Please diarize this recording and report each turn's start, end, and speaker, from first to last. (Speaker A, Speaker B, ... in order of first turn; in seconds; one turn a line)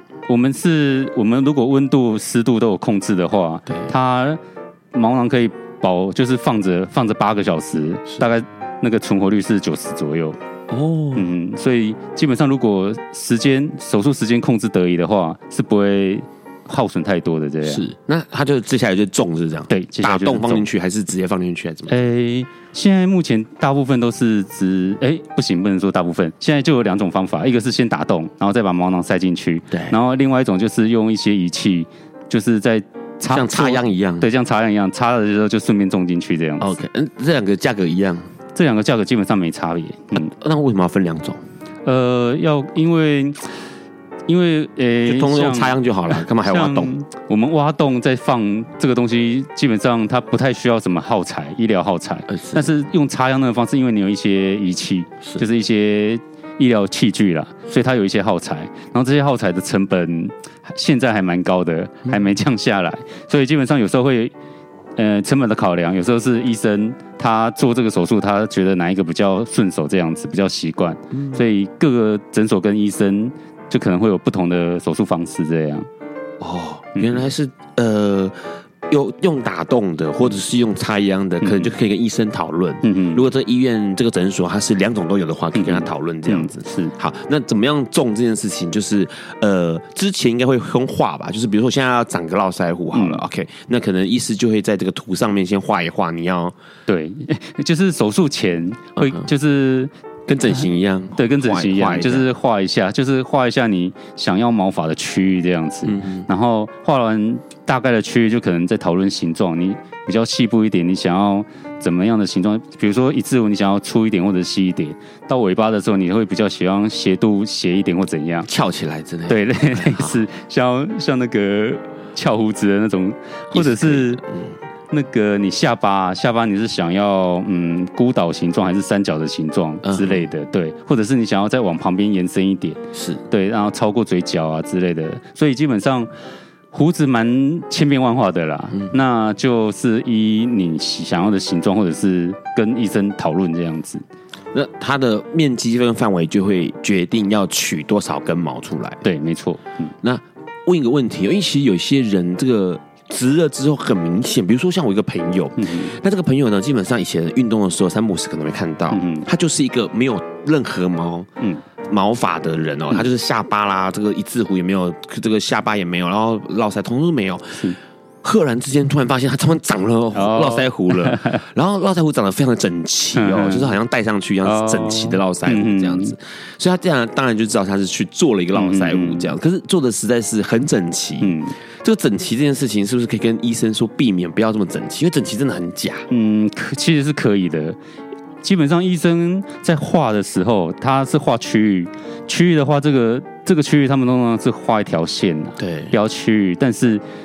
Speaker A: 0.3-4.4
Speaker A: 4.9-10.4
Speaker B: 10.7-11.3
Speaker A: 11.1-17.8
Speaker B: 17.6-21.9
Speaker A: 19.7-20.7
Speaker A: 21.9-36.8
Speaker B: 33.3-34.3
Speaker B: 36.6-38.3
Speaker A: 38.5-40.3
Speaker B: 40.1-41.4
Speaker A: 41.8-43.4
Speaker A: 44.3-64.3
Speaker B: 45.0-46.9
Speaker B: 52.3-52.7
Speaker A: 65.0-75.9
Speaker B: 71.1-71.4
Speaker B: 76.4-78.3
Speaker A: 77.0-77.2
Speaker B: 78.9-96.5
Speaker A: 81.4-81.7
Speaker A: 82.8-83.2
Speaker A: 85.5-86.9
Speaker A: 92.9-93.2
Speaker A: 96.9-99.9
Speaker B: 99.0-99.3
Speaker B: 100.3-102.3
Speaker A: 100.5-118.5
Speaker B: 105.8-106.3
Speaker B: 118.5-120.2
Speaker A: 119.3-124.2
Speaker B: 123.5-124.5
Speaker A: 124.9-136.1
Speaker B: 129.8-130.2
Speaker B: 132.9-133.2
Speaker A: 136.7-144.0
Speaker B: 144.5-149.0
Speaker A: 149.0-149.9
Speaker B: 150.0-161.3
Speaker A: 155.6-155.9
Speaker A: 158.9-159.3
Speaker B: 161.9-167.6
Speaker B: 168.2-186.1
Speaker A: 170.1-171.4
Speaker A: 173.2-173.7
Speaker A: 174.4-176.1
Speaker A: 178.5-179.3
Speaker A: 181.2-181.5
Speaker A: 186.1-187.8
Speaker A: 188.4-197.0
Speaker B: 195.6-195.9